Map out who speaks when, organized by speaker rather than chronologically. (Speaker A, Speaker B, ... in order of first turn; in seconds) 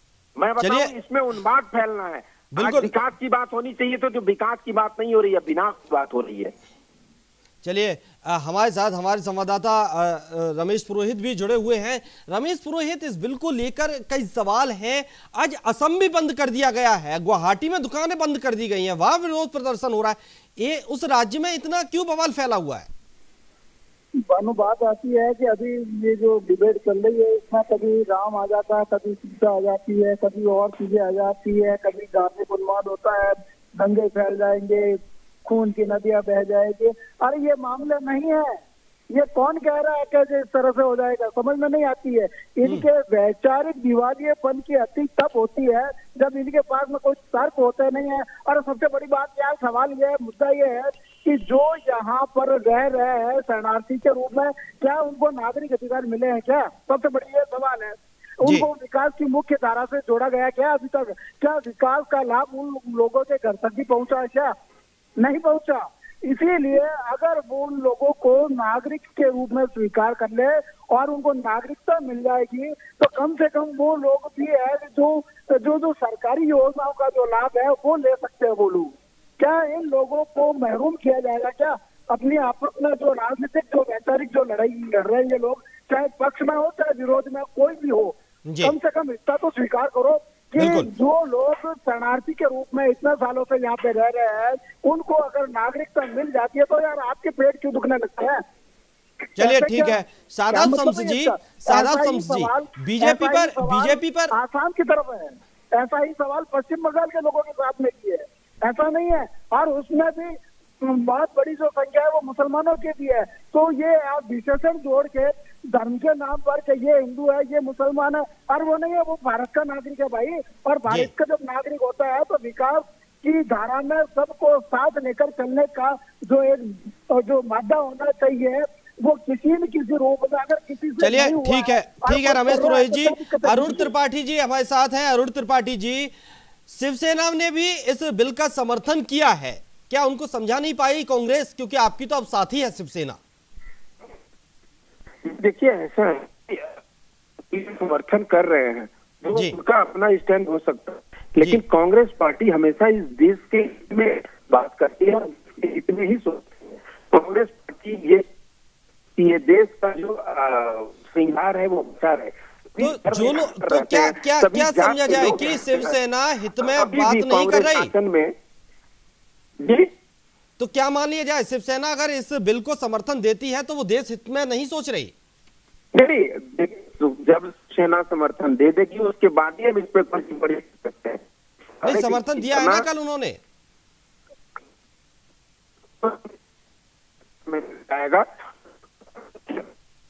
Speaker A: 0.3-6.5, 145.2-146.8, 147.5-158.2, 159.2-165.9, 166.6-168.3, 169.6-169.9, 175.9-181.2, 181.8-182.8, 186.0-186.3, 187.4-188.3
Speaker B: 0.6-0.9, 2.5-2.9, 7.6-22.9, 88.5-88.7, 90.5-90.9, 99.4-104.3, 131.0-136.1, 136.7-143.2, 162.8-167.9, 170.6-175.1, 181.8-183.4
Speaker C: 24.2-38.6, 39.1-64.5, 65.2-98.4, 99.3-133.9